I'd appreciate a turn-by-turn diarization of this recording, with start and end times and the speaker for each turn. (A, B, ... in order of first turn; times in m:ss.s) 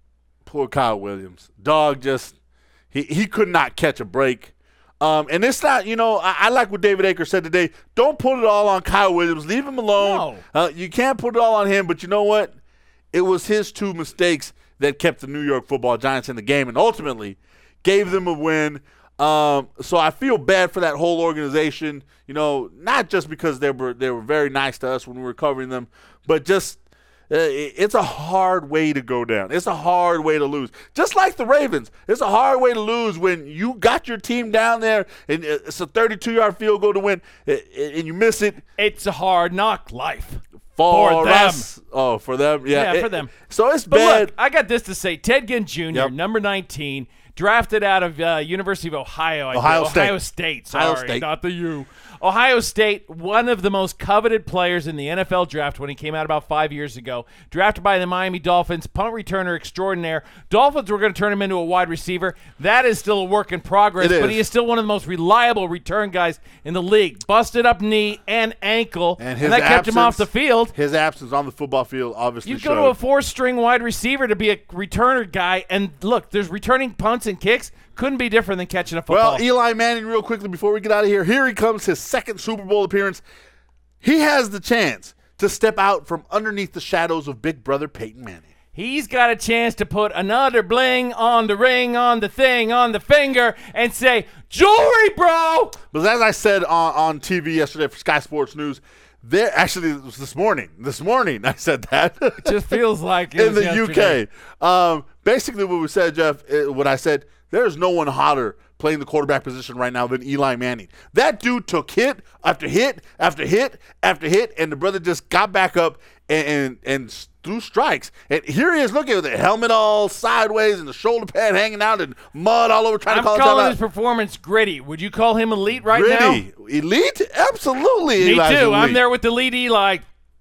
0:00.4-0:02.3 A
0:02.9-0:12.5 A
0:10.0-0:10.4 B
0:13.1-0:38.6 A
0:38.8-0:41.7 B
0:40.8-0:44.3 A
0:42.7-0:43.3 B
0:43.9-1:10.7 B
0:49.5-0:50.2 A
0:50.7-0:51.2 A
1:04.0-1:04.4 A
1:09.2-1:12.9 A
1:12.4-1:19.4 B
1:19.1-1:23.2 A
1:24.0-1:28.4 A
1:28.7-1:35.8 B
1:35.9-1:42.8 A
1:42.4-1:44.2 B
1:43.3-2:03.8 A
2:03.1-2:06.4 B
2:05.9-2:09.0 A
2:08.2-2:10.0 B